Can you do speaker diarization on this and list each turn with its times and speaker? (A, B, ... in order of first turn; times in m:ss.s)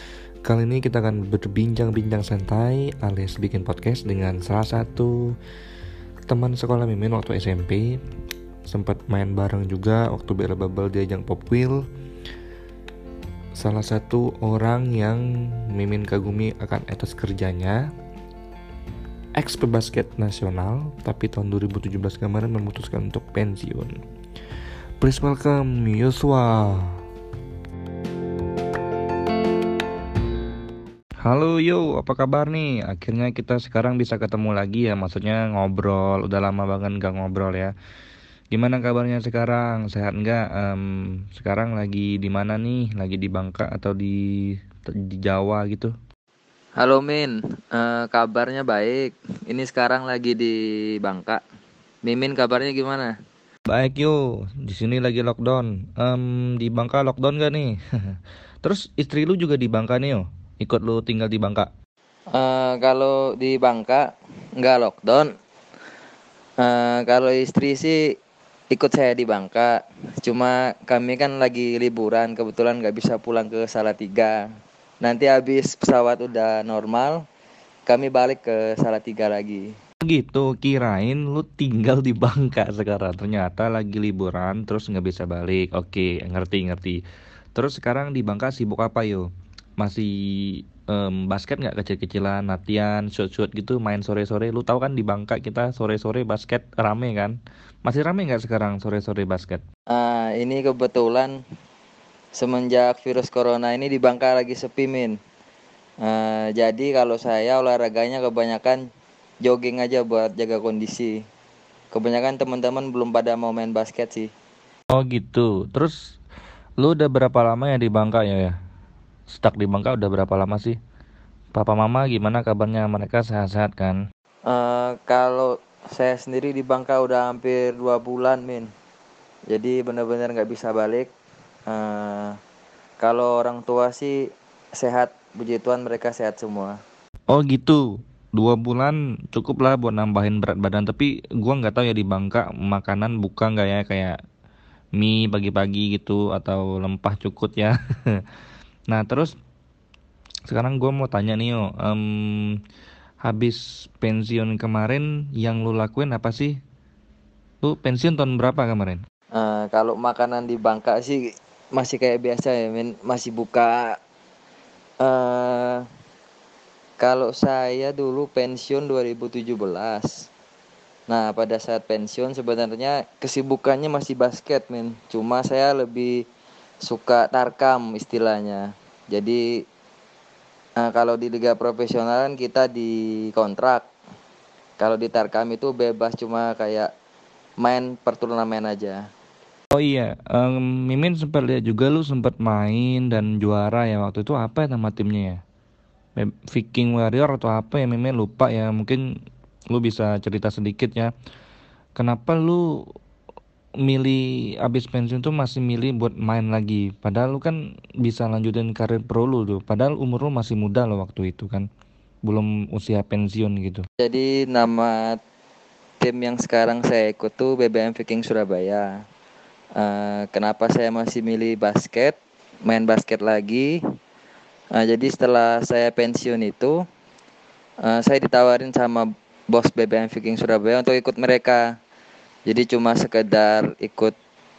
0:00.4-0:05.2 A
0:06.3-0:08.0 A
0:08.7-0:11.8 A
0:13.6-0:17.9 A
0:19.4-0:24.0 A
0:25.0-0:27.0 A
0:31.2-0:37.7 A
0:38.5-0:45.9 A
0:46.8-0:51.4 B
0:52.0-0:53.1 B
0:53.7-1:01.7 A
1:02.3-1:05.3 B
1:06.6-1:08.1 B
1:08.7-1:14.4 B
1:15.0-1:17.2 B
1:17.9-1:19.8 B
1:20.0-1:27.0 A
1:27.5-1:29.3 A
1:29.8-1:39.6 A
1:39.9-1:41.4 B
1:42.3-1:45.2 B
1:46.0-1:48.8 B
1:49.4-1:51.2 B
1:51.9-1:54.3 B
1:54.9-1:56.0 A
1:56.8-1:58.5 A
1:59.3-2:00.8 A
2:01.5-2:04.0 A
2:04.4-2:08.7 B
2:09.5-2:11.1 B
2:11.7-2:12.4 B
2:13.0-2:16.8 B
2:17.3-2:24.2 A
2:25.0-2:28.2 A
2:28.9-2:29.4 A
2:30.5-2:32.6 A
2:33.2-2:36.6 A
2:37.6-2:39.0 A
2:39.3-2:44.0 B
2:45.0-2:45.8 B
2:47.0-2:50.3 B
2:51.1-2:56.2 B
2:56.8-2:59.6 B
3:00.8-3:03.9 B
3:04.8-3:06.9 B
3:07.6-3:09.1 B
3:09.7-3:15.4 A
3:16.2-3:19.1 A
3:19.7-3:21.1 A
3:22.0-3:22.8 A
3:23.8-3:31.7 A
3:32.2-3:33.8 A
3:34.0-3:35.2 B
3:36.0-3:39.0 B
3:39.8-3:43.8 B
3:44.7-3:46.8 B
3:47.8-3:51.7 B
3:52.4-3:54.1 B